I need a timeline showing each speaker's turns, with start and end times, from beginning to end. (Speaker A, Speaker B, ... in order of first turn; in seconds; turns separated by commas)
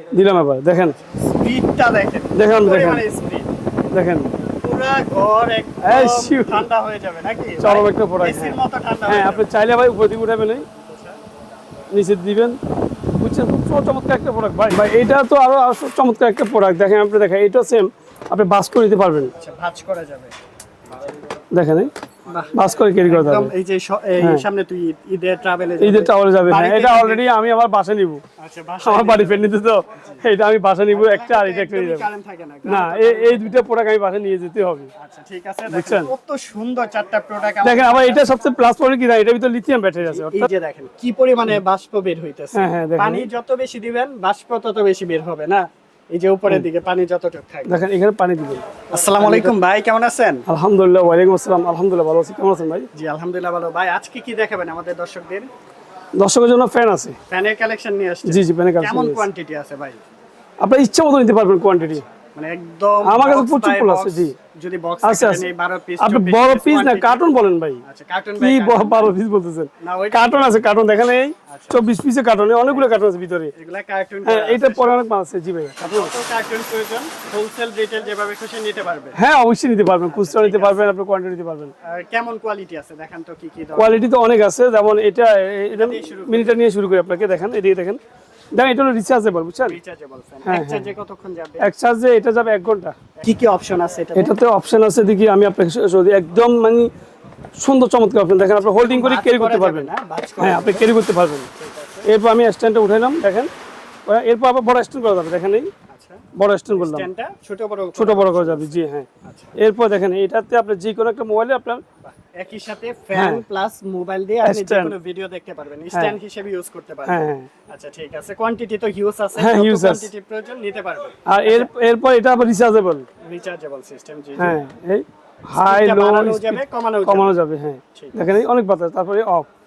Speaker A: 0.1-1.0, Speaker B: 1.1-3.5, Speaker A: 2.4-3.0, Speaker A: 3.9-4.3, Speaker B: 4.6-9.5, Speaker A: 5.8-6.7, Speaker A: 7.6-10.7, Speaker B: 10.7-11.2, Speaker A: 11.9-12.6, Speaker A: 13.2-19.3, Speaker B: 19.4-20.3, Speaker A: 21.5-21.9, Speaker B: 22.3-27.3, Speaker A: 22.5-23.5, Speaker A: 24.2-24.4, Speaker A: 25.8-28.2, Speaker B: 28.4-29.5, Speaker A: 28.8-32.1, Speaker B: 30.9-33.5, Speaker A: 32.7-34.9, Speaker B: 35.0-38.2, Speaker A: 35.7-36.1, Speaker A: 37.6-40.5, Speaker B: 40.0-47.8, Speaker A: 42.5-43.3, Speaker A: 47.7-48.6, Speaker B: 48.9-50.4, Speaker A: 49.2-49.5, Speaker A: 50.5-52.9, Speaker B: 53.0-55.5, Speaker A: 56.2-57.2, Speaker B: 57.3-60.0, Speaker A: 58.3-59.2, Speaker A: 60.6-62.0, Speaker B: 62.4-67.2, Speaker A: 63.0-64.3, Speaker A: 65.0-65.5, Speaker A: 66.0-67.8, Speaker B: 67.8-69.2, Speaker A: 68.4-73.5, Speaker B: 69.8-70.6, Speaker B: 71.5-71.9, Speaker B: 72.7-73.0, Speaker B: 73.5-75.0, Speaker A: 74.2-76.1, Speaker B: 75.8-79.2, Speaker A: 79.2-81.7, Speaker B: 80.1-80.9, Speaker B: 81.8-84.0, Speaker A: 83.8-88.0, Speaker B: 85.7-86.7, Speaker A: 88.5-89.8, Speaker B: 89.6-91.7, Speaker A: 90.5-90.9, Speaker A: 91.6-93.0, Speaker B: 93.2-94.3, Speaker A: 94.2-96.9, Speaker A: 97.6-101.5, Speaker B: 98.6-100.9, Speaker B: 101.5-102.1, Speaker A: 102.0-103.5, Speaker A: 104.1-105.7, Speaker B: 105.9-106.2, Speaker A: 106.3-107.1, Speaker B: 106.8-109.5, Speaker A: 108.0-111.8, Speaker B: 112.0-121.7, Speaker A: 113.1-113.4, Speaker A: 114.4-114.9, Speaker A: 117.1-117.5, Speaker A: 119.4-120.1, Speaker A: 121.3-123.1, Speaker B: 123.2-124.6, Speaker A: 124.4-129.5, Speaker B: 125.5-127.4